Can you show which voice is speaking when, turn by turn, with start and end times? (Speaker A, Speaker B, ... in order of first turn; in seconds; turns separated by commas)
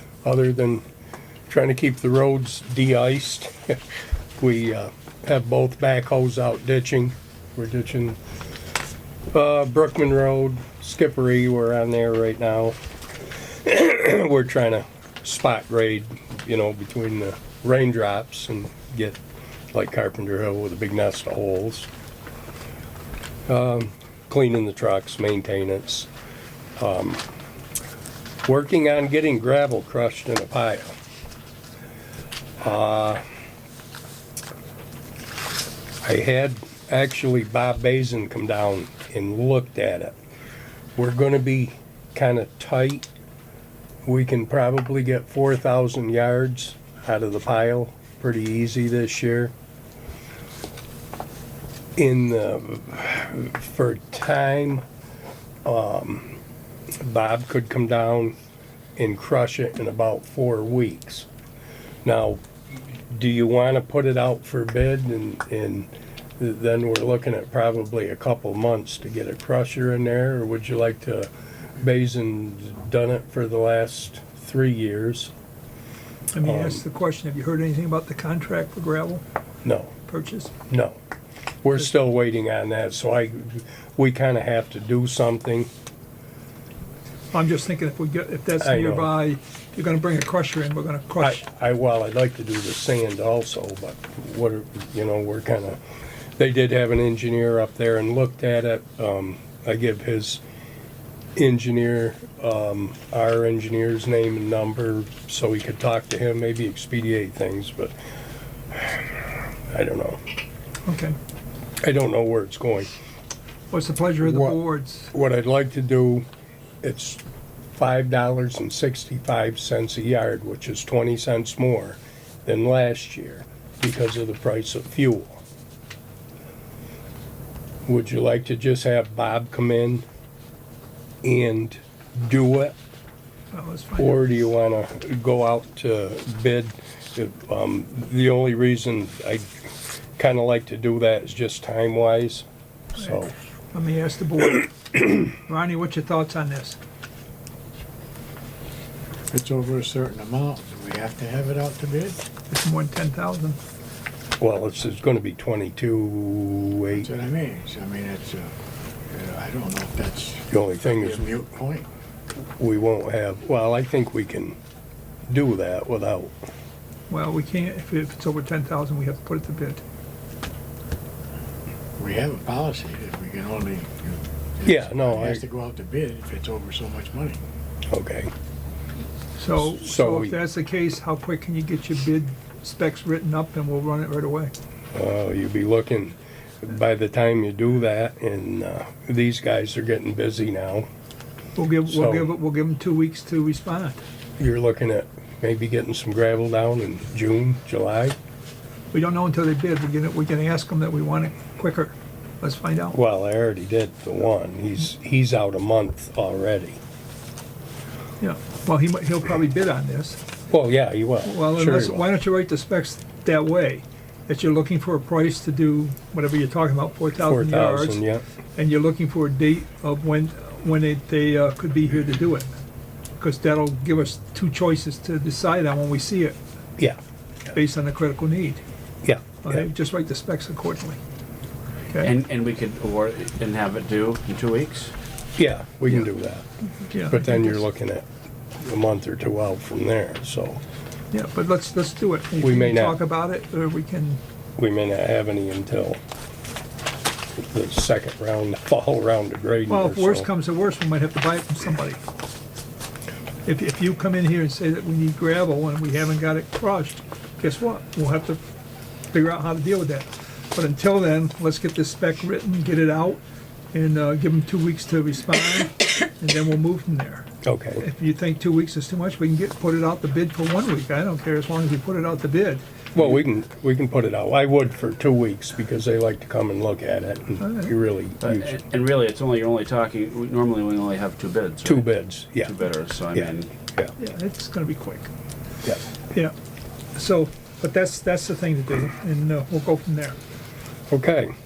Speaker A: 0.2-0.8, Speaker A: 1.5-3.8, Speaker A: 4.4-8.2, Speaker A: 9.3-12.8, Speaker A: 13.6-19.2, Speaker A: 19.7-21.9, Speaker A: 23.5-26.1, Speaker A: 26.8-27.2, Speaker A: 28.4-30.9, Speaker A: 32.6-33.2, Speaker A: 36.0-40.2, Speaker A: 41.0-43.1, Speaker A: 44.0-49.5, Speaker A: 52.0-54.8, Speaker A: 55.6-56.4, Speaker A: 57.0-58.4, Speaker A: 59.0-61.3, Speaker A: 62.0-62.4, Speaker A: 63.1-75.3, Speaker B: 76.3-79.2, Speaker A: 76.4-76.8, Speaker A: 79.7-79.9, Speaker B: 80.1-80.5, Speaker A: 80.7-81.0, Speaker A: 81.6-85.7, Speaker B: 87.3-91.4, Speaker A: 88.6-89.1, Speaker A: 91.2-95.8, Speaker A: 96.4-100.4, Speaker A: 101.3-107.9, Speaker A: 108.7-110.2, Speaker B: 110.8-111.2, Speaker A: 111.8-112.9, Speaker B: 113.7-115.1, Speaker A: 114.2-114.6, Speaker A: 115.1-116.2, Speaker A: 116.8-117.2, Speaker A: 117.8-125.4, Speaker A: 127.9-130.1, Speaker A: 131.2-132.8, Speaker B: 133.5-134.2, Speaker A: 134.0-139.5, Speaker A: 140.2-142.4, Speaker A: 143.0-143.3, Speaker B: 143.7-146.8, Speaker C: 149.3-152.2, Speaker B: 152.5-153.6, Speaker A: 154.4-157.2, Speaker C: 156.9-158.5, Speaker C: 159.1-161.9, Speaker A: 160.5-161.3, Speaker A: 162.6-164.6, Speaker A: 165.3-166.3, Speaker B: 167.1-169.8, Speaker C: 172.0-177.4, Speaker A: 174.7-175.4, Speaker A: 177.9-178.3, Speaker B: 179.4-184.5, Speaker A: 179.6-180.4, Speaker A: 184.9-190.9, Speaker B: 191.6-194.0, Speaker A: 191.9-192.3, Speaker A: 194.4-198.2, Speaker B: 198.9-203.0, Speaker A: 202.9-206.8, Speaker B: 208.2-210.2, Speaker A: 210.5-212.1, Speaker B: 211.2-218.0, Speaker A: 217.2-218.2, Speaker B: 218.6-222.5, Speaker B: 223.2-226.4, Speaker B: 227.5-228.6, Speaker A: 229.0-229.7, Speaker B: 229.4-231.0, Speaker D: 232.0-234.9, Speaker A: 235.4-236.5, Speaker B: 236.9-237.6, Speaker A: 237.0-238.1, Speaker A: 238.6-240.6, Speaker B: 241.1-244.2, Speaker A: 242.4-243.0, Speaker A: 244.6-246.0, Speaker A: 247.4-250.3, Speaker B: 249.7-252.0, Speaker B: 253.4-258.4, Speaker B: 259.1-263.2, Speaker B: 263.7-272.6, Speaker A: 267.4-267.9, Speaker A: 272.9-278.6, Speaker B: 277.4-277.7, Speaker D: 278.2-281.9, Speaker A: 281.6-282.5, Speaker D: 282.4-283.5, Speaker A: 283.1-283.9, Speaker B: 284.0-285.1, Speaker B: 286.9-290.2, Speaker A: 290.9-291.3